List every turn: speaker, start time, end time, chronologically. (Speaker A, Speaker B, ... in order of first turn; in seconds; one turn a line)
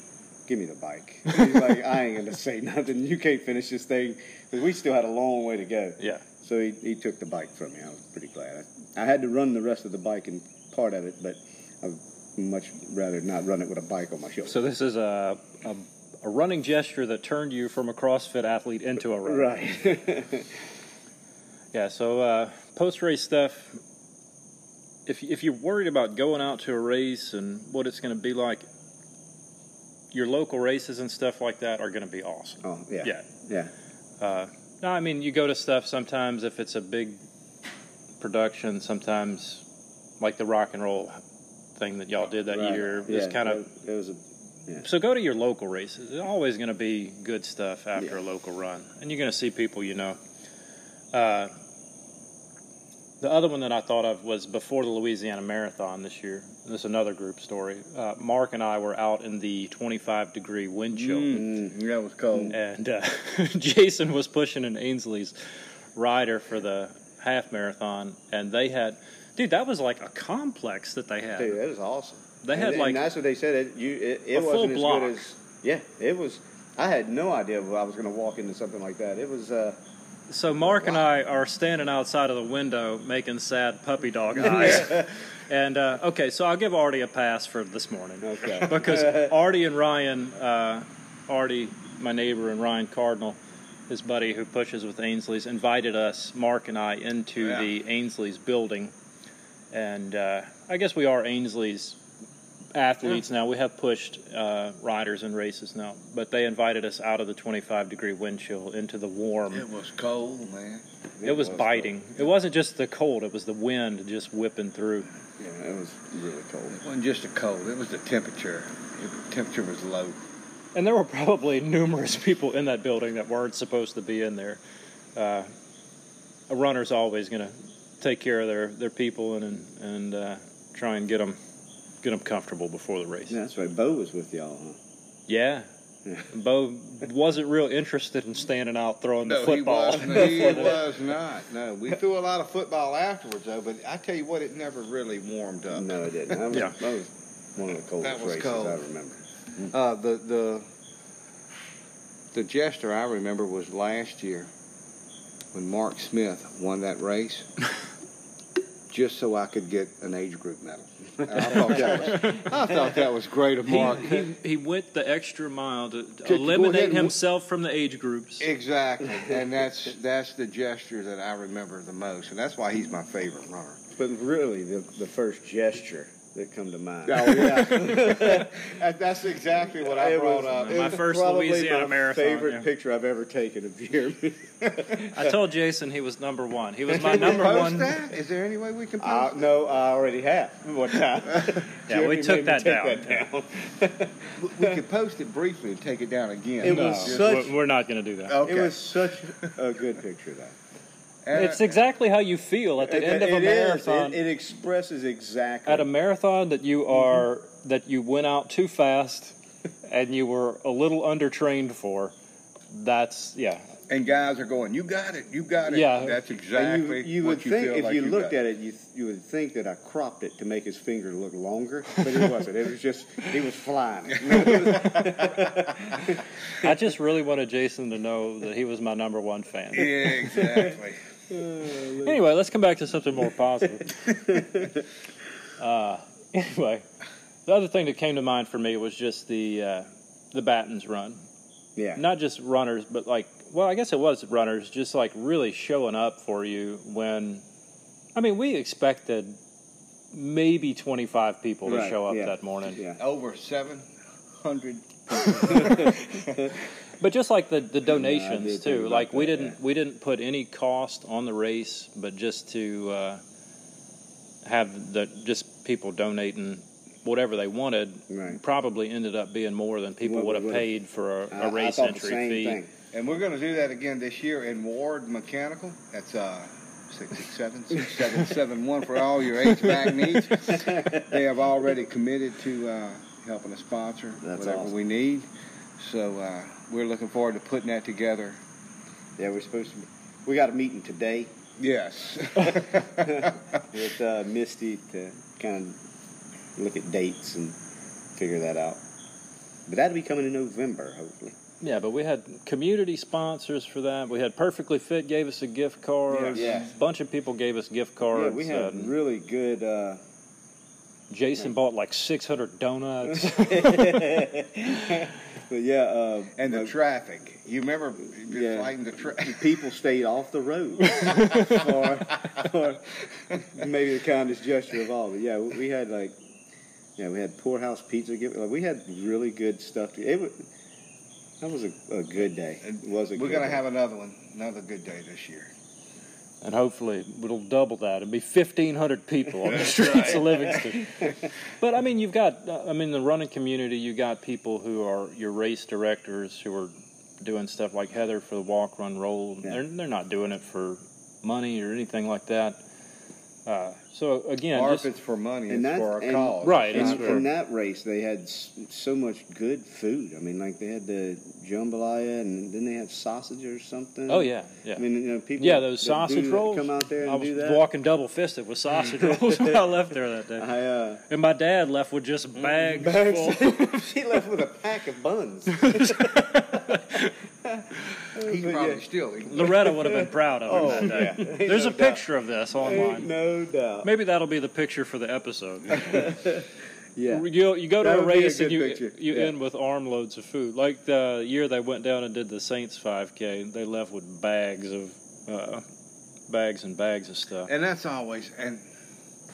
Speaker A: 0.5-14.6
Speaker B: 6.0-6.2
Speaker B: 14.5-19.5
Speaker A: 19.2-20.5
Speaker B: 21.7-23.8
Speaker B: 25.1-28.6
Speaker B: 30.1-33.3
Speaker A: 32.6-33.7
Speaker B: 34.2-37.2
Speaker B: 38.2-39.6
Speaker B: 40.2-41.2
Speaker B: 41.8-43.6
Speaker A: 42.5-44.9
Speaker B: 44.8-50.2
Speaker B: 51.1-51.5
Speaker B: 53.2-61.5
Speaker C: 60.9-62.6
Speaker A: 61.4-61.7
Speaker B: 62.5-65.4
Speaker B: 66.0-71.6
Speaker A: 71.4-79.8
Speaker B: 72.4-73.1
Speaker B: 74.3-75.2
Speaker B: 80.3-98.9
Speaker A: 80.6-81.0
Speaker A: 84.4-85.1
Speaker A: 88.2-89.4
Speaker B: 99.7-102.0
Speaker B: 102.7-109.7
Speaker C: 109.5-110.8
Speaker A: 111.2-112.0
Speaker B: 111.2-115.1
Speaker A: 115.4-116.8
Speaker C: 116.7-120.2
Speaker B: 120.8-124.6
Speaker B: 125.2-125.5
Speaker B: 126.5-131.4
Speaker B: 132.0-133.4
Speaker A: 133.3-134.8
Speaker B: 135.3-135.7
Speaker B: 136.3-140.8
Speaker C: 139.3-146.4
Speaker A: 140.1-140.8
Speaker A: 145.7-149.7
Speaker B: 146.5-146.8
Speaker C: 148.0-148.8
Speaker C: 149.7-150.7
Speaker C: 152.3-154.5
Speaker C: 155.5-157.5
Speaker C: 158.9-164.2
Speaker A: 161.3-162.2
Speaker B: 161.8-162.5
Speaker B: 163.7-168.5
Speaker C: 166.2-167.2
Speaker C: 168.4-173.8
Speaker A: 174.0-178.8
Speaker C: 177.1-181.0
Speaker A: 179.7-185.3
Speaker B: 180.5-182.7
Speaker B: 185.1-188.0
Speaker C: 186.9-189.5
Speaker A: 187.1-187.6
Speaker A: 189.0-194.8
Speaker B: 191.9-193.3
Speaker C: 194.4-197.5
Speaker A: 196.6-197.5
Speaker B: 196.6-198.4
Speaker C: 198.3-199.5
Speaker A: 198.4-200.6
Speaker C: 201.2-201.8
Speaker B: 201.3-204.2
Speaker A: 202.8-205.9
Speaker B: 205.7-212.1
Speaker B: 212.7-213.7
Speaker C: 213.9-218.4
Speaker B: 215.7-216.2
Speaker A: 216.5-226.2
Speaker C: 224.2-225.4
Speaker B: 226.6-230.5
Speaker C: 229.7-231.0
Speaker A: 231.3-232.2
Speaker B: 232.0-234.3
Speaker A: 234.1-234.8
Speaker B: 235.6-236.9
Speaker B: 237.5-241.2
Speaker A: 241.8-242.0
Speaker B: 242.0-247.4
Speaker B: 248.2-249.4
Speaker B: 250.1-252.8
Speaker A: 251.7-253.0
Speaker C: 253.0-253.9
Speaker C: 254.4-256.5
Speaker A: 255.5-256.5
Speaker B: 257.0-263.2
Speaker A: 257.9-259.6
Speaker B: 264.4-272.6
Speaker A: 268.1-268.4
Speaker A: 270.0-270.7
Speaker A: 271.3-272.7
Speaker C: 272.9-285.3
Speaker A: 280.5-281.1
Speaker A: 284.2-284.7
Speaker C: 285.8-288.4
Speaker A: 289.2-291.3
Speaker C: 291.6-293.4
Speaker A: 292.5-295.8
Speaker A: 296.6-297.6
Speaker A: 298.1-298.8
Speaker A: 299.7-301.4
Speaker B: 301.6-308.9
Speaker C: 306.1-306.6
Speaker A: 306.4-306.7
Speaker A: 308.1-310.0
Speaker B: 311.1-314.2
Speaker A: 313.1-316.7
Speaker C: 316.4-319.5
Speaker A: 318.3-326.1
Speaker B: 321.0-321.6
Speaker A: 327.0-330.5
Speaker A: 331.4-333.6
Speaker C: 332.6-335.5
Speaker B: 336.4-352.6
Speaker C: 339.6-340.2
Speaker A: 340.1-341.0
Speaker B: 353.5-354.9
Speaker C: 354.5-357.3
Speaker A: 355.5-367.7
Speaker B: 356.4-357.2
Speaker B: 364.1-364.9
Speaker B: 365.4-370.5
Speaker A: 369.0-369.6
Speaker A: 370.4-371.0
Speaker B: 371.1-373.8
Speaker A: 372.6-378.8
Speaker B: 375.5-377.1
Speaker C: 378.1-379.9
Speaker B: 379.2-383.1
Speaker A: 379.4-382.0
Speaker A: 382.6-383.9
Speaker B: 383.8-386.2
Speaker A: 385.7-389.3
Speaker B: 387.1-395.6
Speaker B: 396.3-397.5
Speaker C: 397.5-398.7